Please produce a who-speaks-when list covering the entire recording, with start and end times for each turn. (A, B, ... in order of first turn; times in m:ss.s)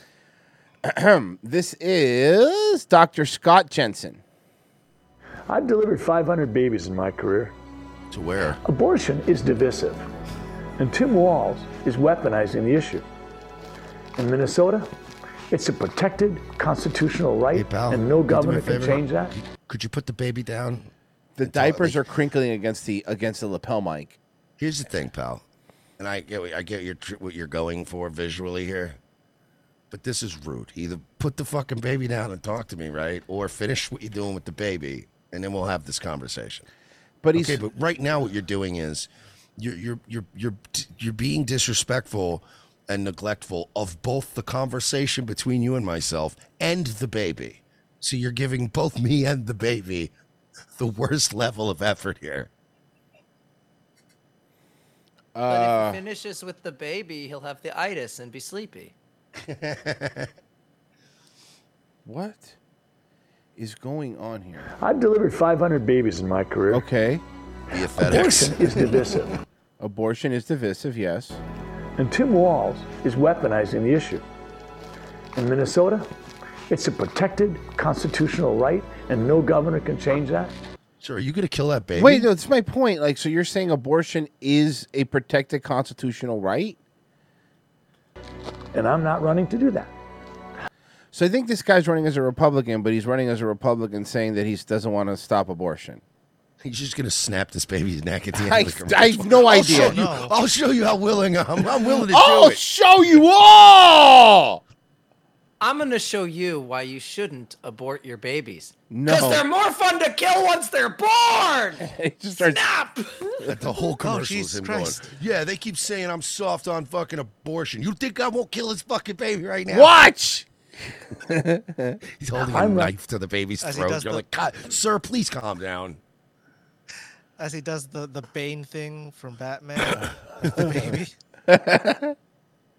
0:00.8-0:04.2 A
0:05.5-0:07.5 B
0:08.1-0:08.6 C
0:08.6-0:10.0 B
0:10.8-0:13.0 B
0:14.2-0:14.9 B
0:15.5-0:19.3 B
0:17.5-0:20.9 C
0:21.4-0:24.2 A
0:21.4-0:22.0 C
0:24.6-0:25.4 C
0:26.0-0:29.0 C
0:29.9-0:36.7 C
0:37.2-0:37.6 A
0:37.3-0:50.1 C
0:50.8-0:52.5 C
0:55.3-0:56.0 A
0:55.5-0:58.9 D
0:59.4-1:00.3 C
1:02.0-1:02.6 A
1:03.6-1:04.7 A
1:04.8-1:06.8 B
1:06.7-1:07.2 A
1:07.7-1:09.3 C
1:07.9-1:09.3 B
1:09.8-1:11.4 A
1:12.0-1:14.2 B
1:15.3-1:16.1 B
1:16.7-1:20.5 B
1:21.0-1:22.3 C
1:22.0-1:26.8 A
1:28.7-1:29.9 B
1:31.1-1:36.0 A
1:36.6-1:42.6 C
1:38.4-1:40.0 A
1:39.5-1:40.3 E
1:42.1-1:44.6 A
1:45.6-1:51.8 D
1:48.9-1:49.4 A
1:51.8-1:52.6 A
1:52.4-1:53.0 D
1:53.4-2:00.0 C
1:54.0-1:55.1 E
1:59.7-2:00.5 A
2:01.2-2:02.0 A
2:02.2-2:06.0 C
2:02.4-2:02.9 B
2:03.6-2:04.2 E
2:07.4-2:11.0 E
2:10.6-2:10.9 C
2:11.5-2:12.1 A